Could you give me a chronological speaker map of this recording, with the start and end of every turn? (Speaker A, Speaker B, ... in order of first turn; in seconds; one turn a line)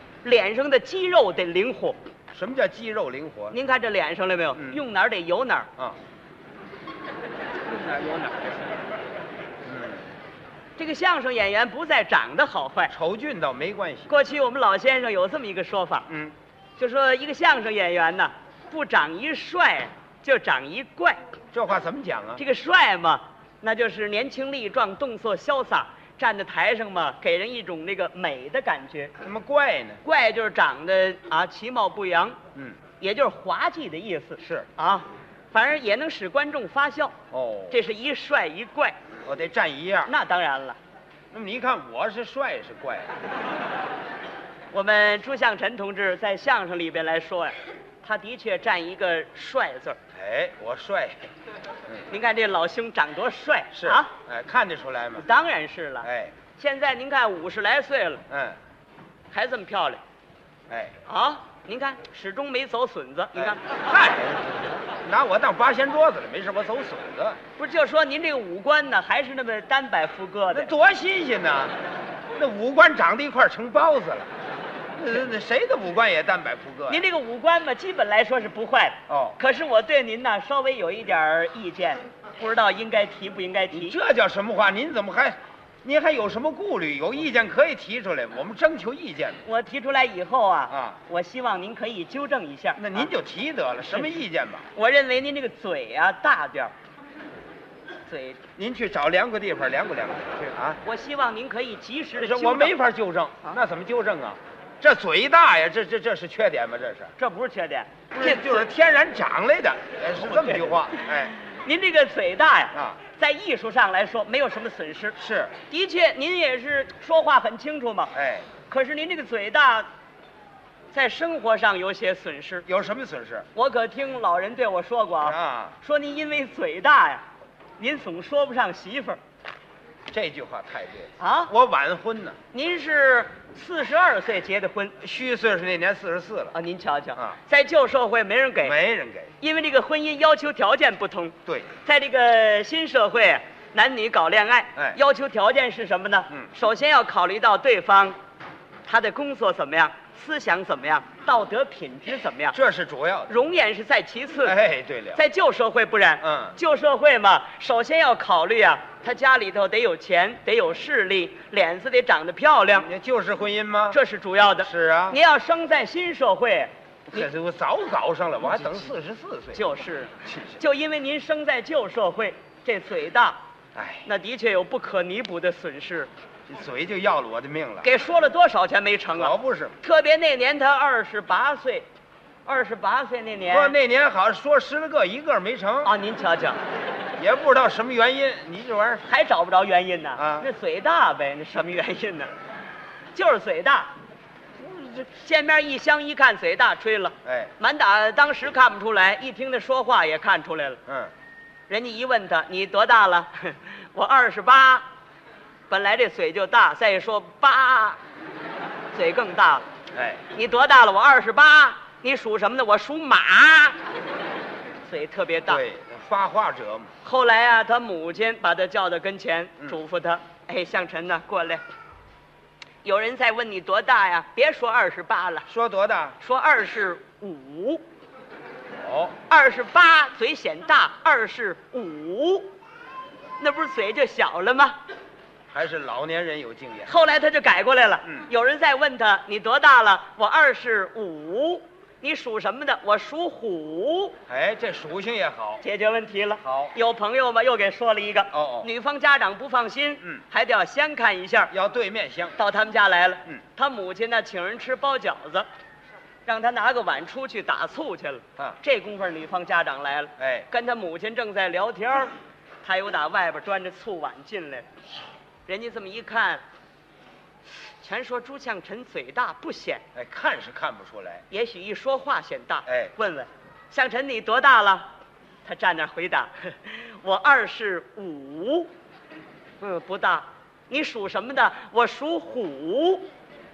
Speaker A: 0.2-2.0
Speaker B: 2.3-3.5
Speaker A: 3.5-5.7
Speaker A: 7.7-8.5
Speaker B: 9.6-10.0
Speaker A: 10.8-12.9
Speaker B: 12.9-14.1
Speaker A: 14.1-16.1
Speaker B: 16.1-16.3
Speaker A: 16.8-21.2
Speaker B: 21.5-22.4
Speaker A: 22.4-29.1
Speaker B: 29.2-30.0
Speaker A: 30.0-32.4
Speaker A: 33.0-37.1
Speaker B: 34.4-34.7
Speaker B: 37.3-37.8
Speaker A: 37.7-38.9
Speaker B: 39.2-40.1
Speaker A: 40.0-40.8
Speaker B: 41.3-43.1
Speaker A: 44.7-50.0
Speaker B: 50.1-51.2
Speaker A: 52.1-54.1
Speaker B: 53.7-55.2
Speaker A: 55.2-58.2
Speaker B: 56.0-56.4
Speaker B: 58.3-58.6
Speaker A: 59.3-60.0
Speaker B: 60.7-60.9
Speaker A: 61.0-63.8
Speaker B: 63.3-67.4
Speaker A: 67.6-70.7
Speaker B: 70.5-71.7
Speaker B: 72.3-74.3
Speaker B: 75.0-77.0
Speaker A: 76.9-84.0
Speaker B: 79.1-79.4
Speaker B: 83.7-89.4
Speaker A: 89.4-93.1
Speaker B: 90.7-91.0
Speaker B: 92.8-94.7
Speaker A: 94.8-96.7
Speaker A: 98.1-98.4
Speaker B: 98.5-100.8
Speaker A: 100.8-102.7
Speaker B: 102.1-107.1
Speaker A: 107.2-108.7
Speaker B: 108.1-111.3
Speaker A: 110.2-115.2
Speaker B: 112.7-113.0
Speaker B: 115.2-115.5
Speaker A: 115.7-118.1
Speaker B: 118.1-118.5
Speaker A: 118.7-119.9
Speaker A: 120.9-122.7
Speaker B: 122.7-123.5
Speaker A: 123.5-127.2
Speaker B: 125.2-125.8
Speaker A: 127.8-129.2
Speaker B: 130.1-132.4
Speaker A: 131.2-131.5
Speaker A: 132.5-135.0
Speaker B: 135.0-136.6
Speaker A: 136.5-138.7
Speaker B: 138.6-139.3
Speaker A: 139.4-148.1
Speaker B: 141.4-141.7
Speaker A: 148.8-152.6
Speaker B: 152.5-153.4
Speaker A: 153.3-154.6
Speaker B: 154.4-155.2
Speaker A: 155.1-162.9
Speaker B: 156.2-156.6
Speaker B: 162.7-164.0
Speaker A: 163.9-167.2
Speaker B: 164.6-165.2
Speaker B: 167.1-169.6
Speaker A: 169.5-173.4
Speaker B: 170.2-170.6
Speaker B: 173.7-174.1
Speaker A: 174.0-176.1
Speaker B: 176.5-177.9
Speaker A: 177.8-181.9
Speaker B: 179.1-179.8
Speaker A: 182.4-183.7
Speaker B: 183.4-185.9
Speaker A: 185.8-186.6
Speaker B: 187.2-189.0
Speaker A: 189.1-192.3
Speaker B: 190.2-190.5
Speaker A: 193.1-193.9
Speaker A: 194.7-200.8
Speaker B: 197.2-197.5
Speaker B: 200.9-201.1
Speaker A: 201.7-204.8
Speaker A: 205.7-208.0
Speaker A: 208.9-209.6
Speaker B: 209.9-210.2
Speaker A: 210.3-213.8
Speaker A: 214.8-215.6
Speaker B: 215.4-216.9
Speaker A: 217.0-221.6
Speaker A: 222.8-225.5
Speaker B: 225.5-226.2
Speaker A: 226.2-227.8
Speaker B: 228.8-229.2
Speaker A: 229.3-232.5
Speaker A: 233.4-234.8
Speaker B: 235.5-236.9
Speaker A: 236.9-244.2
Speaker B: 244.3-245.6
Speaker A: 245.6-251.5
Speaker B: 246.4-246.7
Speaker B: 248.3-248.7
Speaker B: 251.5-252.4
Speaker A: 252.4-255.5
Speaker A: 256.2-264.6
Speaker B: 260.2-260.5
Speaker A: 265.5-266.4
Speaker A: 267.8-269.8
Speaker B: 269.9-271.2
Speaker A: 271.3-274.9
Speaker B: 272.7-272.9
Speaker A: 275.4-278.7
Speaker A: 279.6-283.1